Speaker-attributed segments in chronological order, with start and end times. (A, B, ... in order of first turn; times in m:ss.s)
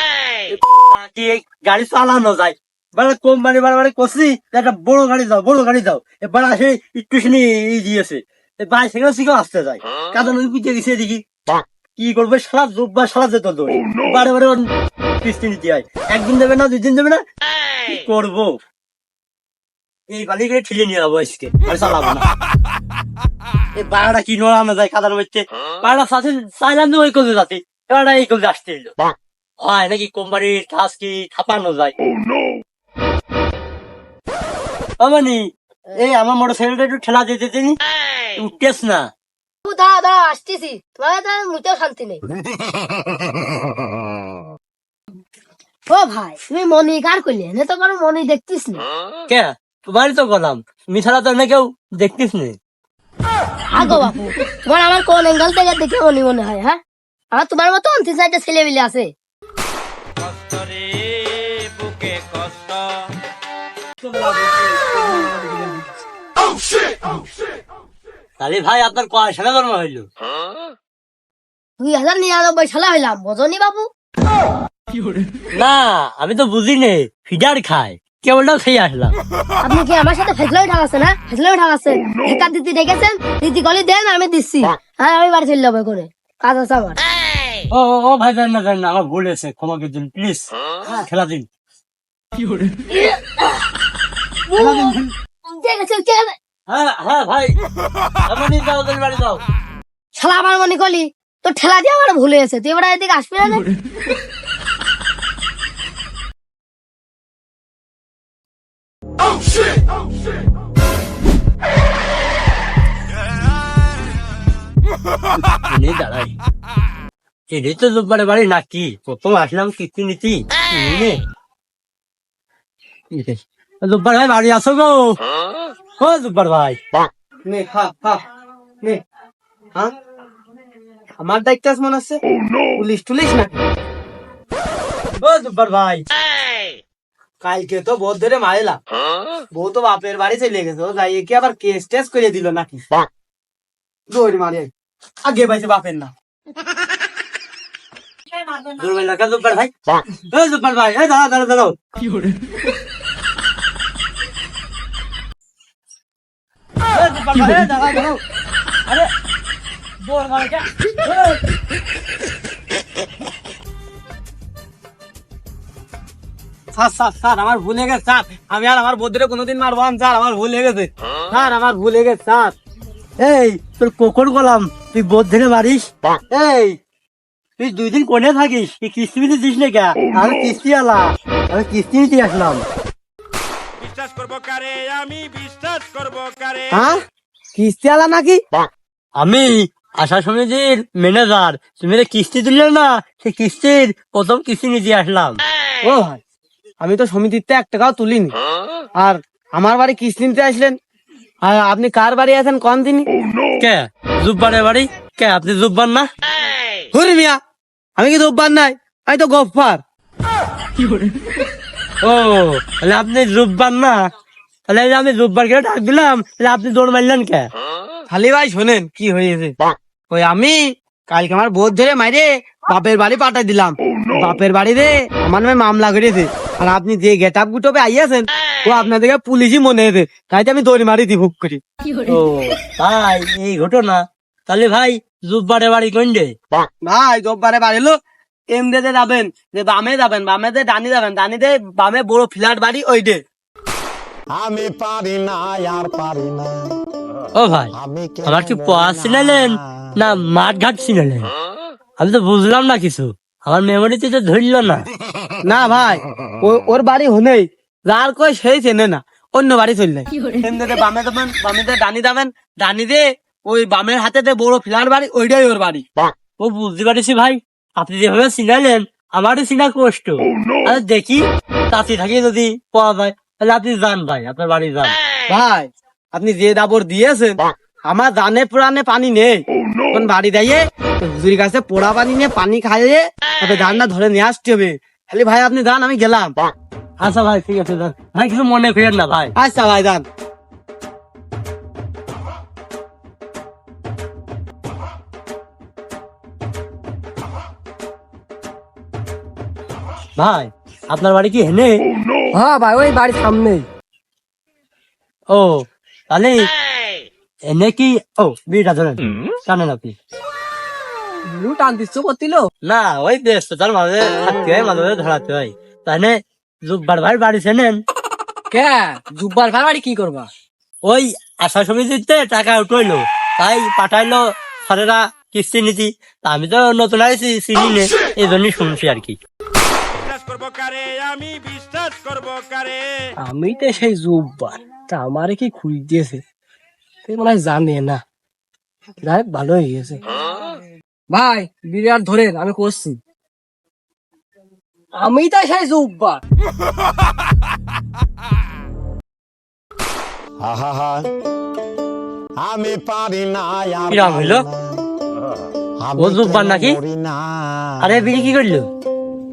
0:00.5-0:11.2 A
0:12.0-0:14.6 A
0:15.2-0:17.2 A
0:17.8-0:18.6 A
0:20.1-0:22.3 A
0:23.7-0:28.9 A
0:29.6-0:31.9 A
0:35.0-0:37.8 A
0:38.4-0:39.1 A
0:39.6-0:42.2 B
0:45.9-0:48.8 B
0:49.3-0:52.6 A
0:53.7-0:56.8 B
0:57.3-0:59.1 B
1:04.0-1:05.8 C
1:08.4-1:10.1 A
1:11.8-1:13.9 B
1:15.5-1:19.1 A
1:19.6-1:27.0 B
1:27.7-1:31.5 A
1:32.9-1:33.5 B
1:34.5-1:36.4 B
1:34.6-1:35.1 A
1:36.7-1:37.5 A
1:38.2-1:39.4 A
1:40.1-1:43.7 B
1:55.6-1:56.3 A
1:57.5-2:01.2 A
2:03.1-2:05.2 A
2:06.0-2:06.8 A
2:07.4-2:08.2 C
2:11.2-2:12.2 C
2:12.8-2:13.6 C
2:15.2-2:16.0 A
2:17.4-2:18.8 C
2:19.5-2:22.8 C
2:24.1-2:24.7 C
2:25.2-2:26.1 C
2:28.5-2:29.7 A
2:30.3-2:32.2 A
2:36.9-2:38.2 A
2:40.0-2:41.4 A
2:46.7-2:52.5 C
2:53.2-2:56.8 A
2:57.6-3:02.6 A
3:03.8-3:06.8 D
3:06.7-3:07.0 C
3:07.5-3:08.4 C
3:09.2-3:15.4 A
3:15.8-3:16.2 C
3:16.8-3:18.4 C
3:19.0-3:20.8 C
3:21.4-3:23.1 C
3:23.6-3:26.1 A
3:26.9-3:27.4 C
3:28.0-3:29.8 C
3:32.0-3:34.0 A
3:34.7-3:37.5 A
3:38.1-3:39.5 C
3:40.1-3:51.6 C
3:52.0-3:56.3 A
3:56.8-4:03.2 C
4:04.3-4:06.8 E
4:07.3-4:07.7 A
4:07.7-4:09.6 E
4:08.2-4:11.3 A
4:12.0-4:14.9 A
4:15.4-4:25.8 C
4:26.4-4:35.0 A
4:35.3-4:46.4 C
4:47.0-4:49.3 A
4:49.4-4:50.0 C
5:00.2-5:01.8 A
5:02.3-5:03.7 F
5:05.3-5:06.5 A
5:07.5-5:10.0 A
5:11.2-5:12.5 F
5:12.6-5:17.8 A
5:18.5-5:20.3 F
5:20.8-5:29.2 A
5:30.0-5:32.9 D
5:33.2-5:36.2 F
5:37.0-5:38.0 F
5:39.0-5:40.0 F
5:41.1-5:43.0 F
5:44.9-5:46.2 F
5:50.4-5:51.1 E
5:52.4-5:54.8 E
5:53.9-5:54.4 A
5:55.8-5:58.1 E
5:56.0-5:56.8 A
5:57.8-5:58.7 A